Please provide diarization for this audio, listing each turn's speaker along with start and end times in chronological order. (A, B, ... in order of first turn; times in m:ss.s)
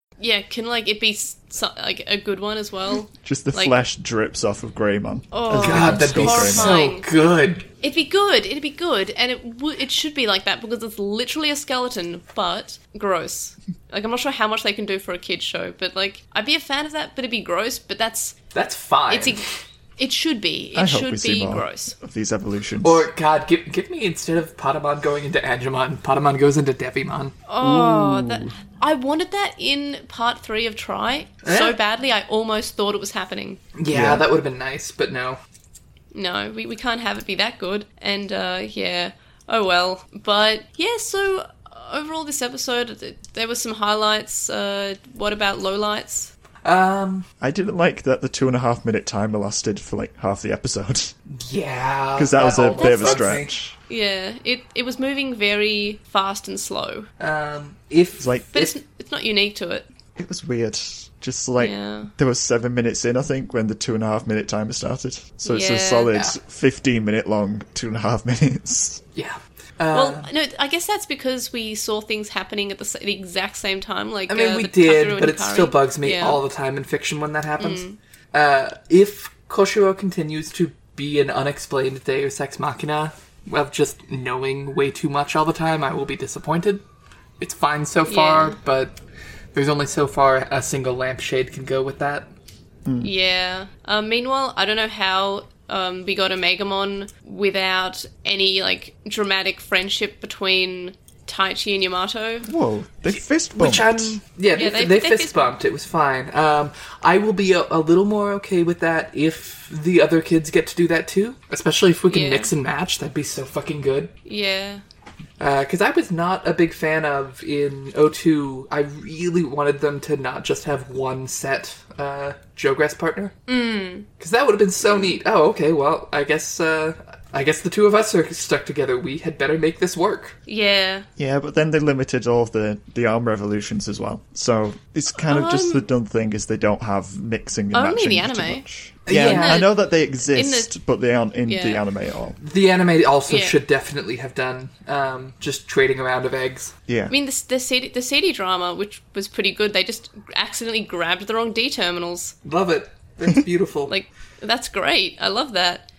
0:00.2-0:03.8 A
0:03.2-0:06.8 B
0:05.3-0:07.1 A
0:05.5-0:07.7 C
0:07.8-0:18.4 A
0:18.5-0:19.4 C
0:19.1-0:19.5 A
0:20.0-0:21.9 A
0:20.8-0:23.0 B
0:22.8-0:27.4 C
0:27.5-0:33.6 A
0:27.6-0:28.5 B
0:31.4-0:31.8 C
0:33.8-0:35.4 C
0:33.9-0:34.2 B
0:36.1-0:46.3 A
0:46.6-0:47.3 C
0:47.4-0:51.1 B
0:51.3-0:53.5 C
0:52.2-0:53.7 B
0:52.8-0:53.4 A
0:53.9-0:57.1 A
0:57.2-0:58.7 C
0:58.2-0:58.6 B
0:58.5-0:59.9 A
1:00.2-1:09.0 B
1:01.6-1:02.1 A
1:05.4-1:06.2 A
1:09.2-1:10.3 C
1:09.9-1:16.4 A
1:14.3-1:26.8 C
1:17.6-1:18.0 A
1:27.4-1:29.0 C
1:28.1-1:28.6 A
1:29.5-1:32.3 C
1:32.9-1:33.1 B
1:33.0-1:42.5 A
1:42.5-1:44.2 B
1:43.1-1:54.1 C
1:44.5-1:45.5 A
1:52.1-1:52.5 A
1:54.3-1:54.8 A
1:55.4-2:03.3 C
2:03.5-2:04.1 A
2:04.2-2:10.4 C
2:10.5-2:11.1 A
2:11.2-2:22.4 B
2:15.2-2:15.8 A
2:17.7-2:18.6 A
2:19.1-2:19.7 C
2:19.2-2:20.7 A
2:21.5-2:21.8 A
2:22.4-2:26.7 C
2:23.3-2:23.6 A
2:26.9-2:27.1 B
2:27.1-2:32.4 A
2:32.4-2:33.9 C
2:33.9-2:35.9 A